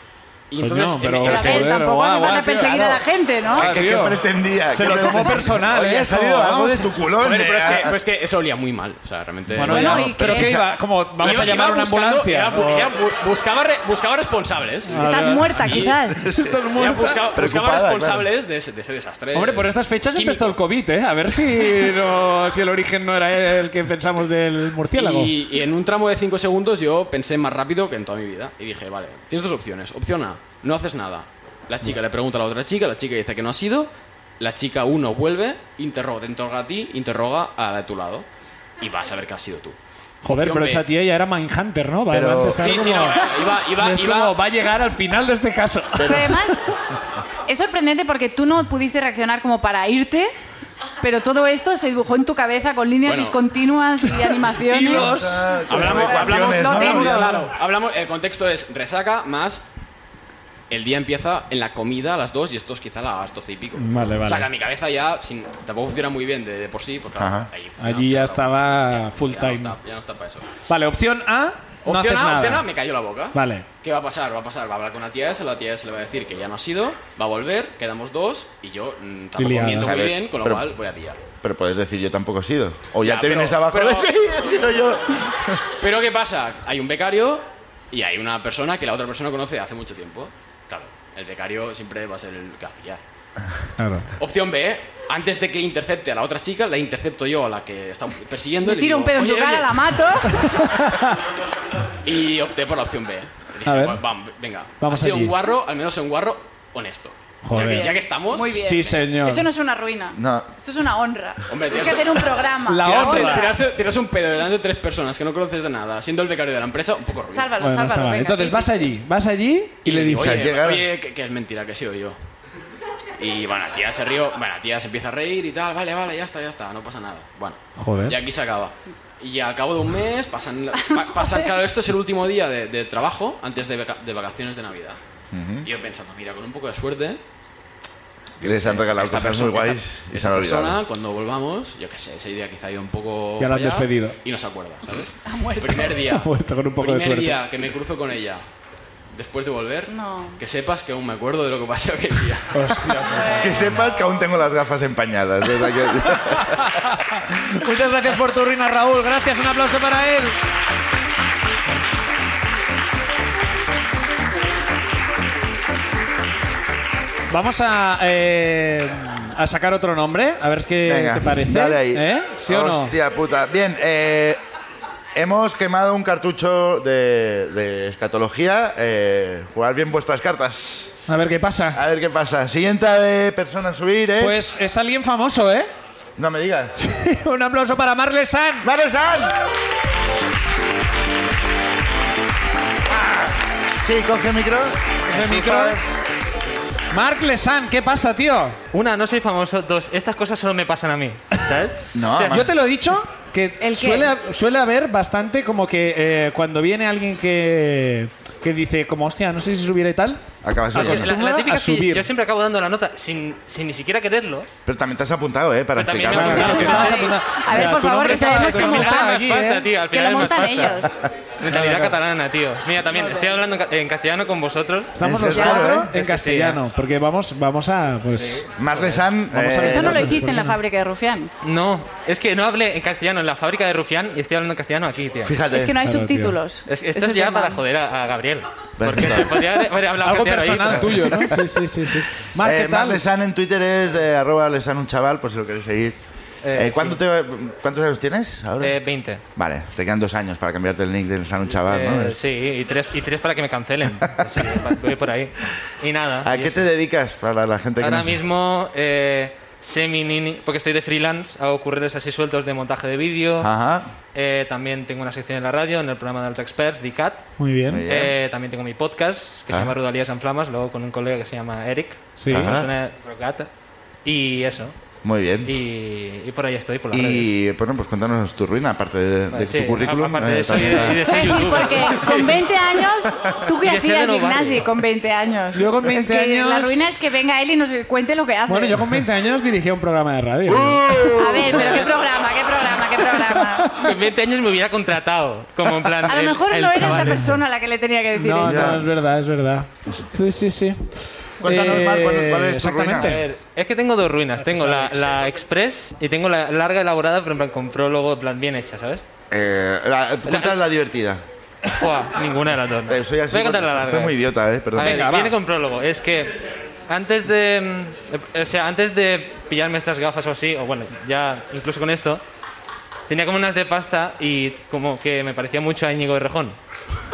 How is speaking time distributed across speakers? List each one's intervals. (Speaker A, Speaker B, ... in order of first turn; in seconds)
Speaker A: 0.5-1.8, 7.2-10.6, 11.2-16.0, 16.7-20.6, 24.9-38.3, 38.8-40.9, 42.6-44.4, 53.0-53.4, 55.7-59.6, 60.7-70.6, 71.8-81.2, 83.0-84.1, 85.8-93.0, 94.2-99.9, 102.0-109.0, 111.5-117.5, 119.8-122.2, 123.2-135.0, 135.6-137.2, 138.4-148.4, 149.1-153.0
Speaker B: 0.6-6.9, 9.5-12.9, 14.9-17.2, 19.3-25.3, 40.2-46.5, 54.5-56.2, 63.8-64.5, 67.8-69.8, 70.7-72.7, 73.3-73.6, 79.4-79.9, 93.8-94.1, 100.5-101.1, 103.7-104.0, 104.8-105.3, 107.4-107.9, 108.5-109.5, 112.6-113.5, 117.6-120.5, 127.8-128.2, 143.4-144.1, 146.1-147.4, 152.5-153.5, 157.5-160.3, 167.3-172.9, 181.1-181.8, 184.2-185.7, 186.8-188.7, 195.1-195.8, 196.9-198.6, 202.3-212.1, 216.1-219.7, 221.4-222.0, 224.9-228.5, 229.3-230.6, 235.8-236.4, 240.0-243.0, 267.4-267.9, 272.2-272.5, 285.5-287.0, 288.5-291.1, 296.8-297.3, 298.1-303.2, 304.5-305.0, 314.8-315.4
Speaker C: 1.2-3.7, 4.9-5.3, 9.7-10.6, 15.0-16.2, 46.0-46.6, 47.5-50.3, 51.0-55.2, 55.7-57.3, 98.6-100.5, 107.5-113.5, 117.3-118.9, 145.2-146.0, 149.9-150.4, 153.0-154.1, 203.6-204.1, 216.2-221.0, 222.9-223.3, 225.3-225.8, 229.6-231.3, 235.5-237.6, 281.0-288.8, 291.1-293.7, 296.0-298.8
Speaker D: 3.5-8.0, 10.2-10.6, 16.1-16.7, 17.3-18.3, 42.1-42.8, 46.0-46.3, 54.9-57.5, 67.2-67.5, 79.8-80.7, 81.4-85.6, 110.1-110.5, 120.2-120.9, 135.3-135.7, 138.4-140.8, 153.4-156.8, 170.8-174.4, 175.1-180.9, 181.7-184.5, 186.2-186.8, 188.6-189.4, 192.9-195.9, 201.9-202.5, 210.4-211.1, 214.6-216.8, 225.0-225.9, 228.6-230.3, 235.2-235.8, 238.8-239.4, 242.2-246.0, 246.5-248.8, 249.3-252.2, 254.2-254.4, 256.2-258.2, 263.4-263.9, 267.7-268.1, 269.5-269.7, 272.3-272.7, 275.0-275.5, 276.9-281.1, 290.4-292.0, 298.4-298.9, 301.4-303.2, 309.3-311.2, 312.9-315.1
Speaker E: 198.7-202.4, 210.7-214.5, 215.8-217.1, 218.0-226.6, 228.2-229.0, 231.4-235.4, 236.7-241.3, 246.4-247.0, 248.6-249.2, 251.7-256.6, 257.8-263.5, 264.1-267.3, 267.9-273.5, 274.0-274.7, 275.4-277.3, 279.3-282.5, 283.6-284.7, 293.8-297.3, 302.9-309.0, 310.3-310.6, 311.6-314.2, 314.7-322.2, 323.1-326.6